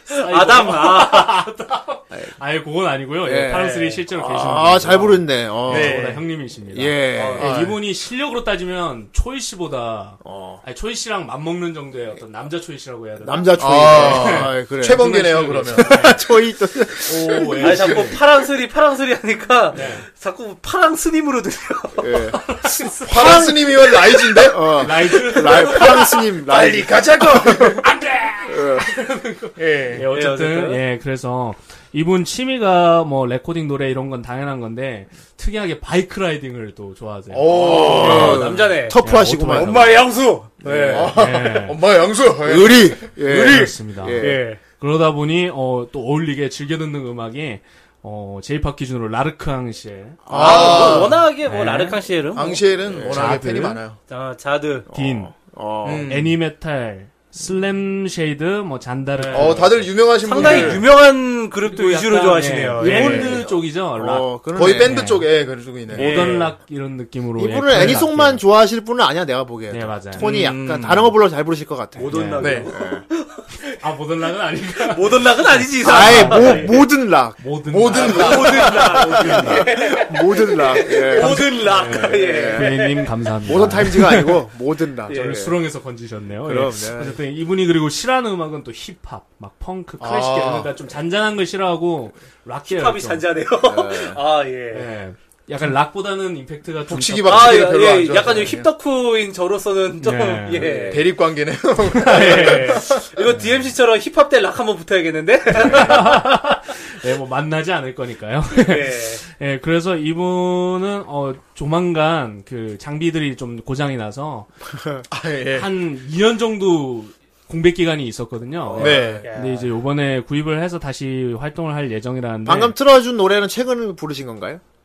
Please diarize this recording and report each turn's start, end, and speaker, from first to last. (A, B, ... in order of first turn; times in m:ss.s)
0:00.1-0:01.5 A
0:00.1-0:16.2 B
0:03.2-0:06.0 C
0:03.5-0:04.0 A
0:05.7-0:06.2 D
0:06.7-0:07.5 C
0:07.2-0:07.4 A
0:07.4-0:07.8 D
0:10.2-0:10.6 C
0:13.2-0:17.8 C
0:13.6-0:16.1 D
0:17.1-0:18.2 B
0:17.6-0:23.1 A
0:19.7-0:20.0 B
0:22.0-0:22.4 C
0:23.1-0:27.8 D
0:23.1-0:27.8 C
0:24.8-0:26.0 B
0:27.8-0:39.8 B
0:28.5-0:28.9 C
0:29.6-0:30.1 D
0:30.1-0:30.8 A
0:37.3-0:38.5 D
0:37.5-0:39.0 A
0:37.5-0:40.0 C
0:39.5-0:41.1 A
0:39.6-0:39.9 D
0:40.6-0:43.7 D
0:40.6-0:41.3 C
0:41.0-0:41.8 B
0:42.4-0:44.4 C
0:43.4-0:50.2 B
0:44.2-0:44.6 A
0:50.3-0:50.8 C
0:50.3-0:51.2 D
0:50.3-0:52.6 A
0:51.4-0:52.0 B
0:52.4-0:54.0 D
0:52.9-0:53.2 C
0:53.1-0:53.8 B
0:54.1-0:54.9 A
0:54.9-0:55.3 B
0:54.9-0:56.1 C
0:55.8-0:56.4 D
0:56.0-1:01.0 B
0:59.2-0:59.6 A
0:59.3-1:00.9 D
1:00.2-1:03.4 A
1:01.7-1:05.3 B
1:02.8-1:05.0 C
1:04.6-1:06.4 D
1:05.9-1:08.4 B
1:06.0-1:06.6 A
1:07.4-1:13.0 C
1:07.8-1:08.0 D
1:09.7-1:10.3 B
1:10.2-1:11.1 D
1:12.0-1:13.4 A
1:12.1-1:12.6 B
1:12.4-1:12.7 D
1:13.8-1:16.8 B
1:14.8-1:16.8 A
1:15.8-1:17.4 C
1:17.4-1:19.8 B
1:17.7-1:19.0 D
1:17.9-1:23.1 A
1:17.9-1:22.8 C
1:21.2-1:24.5 B
1:23.4-1:25.5 C
1:25.1-1:25.5 A
1:25.1-1:33.3 B
1:26.4-1:27.2 C
1:30.0-1:30.7 D
1:32.6-1:34.9 A
1:33.6-1:34.2 C
1:34.7-1:37.6 B
1:36.9-1:38.7 D
1:37.3-1:41.0 A
1:40.0-1:40.9 B
1:40.6-1:42.9 D
1:41.9-1:43.5 B
1:42.1-1:46.2 A
1:45.6-1:54.5 B
1:48.5-1:49.2 A
1:55.1-1:55.7 D
1:55.5-2:02.7 B
1:58.6-1:59.2 C
1:58.8-1:59.3 D
1:59.2-1:59.7 A
2:02.4-2:04.6 C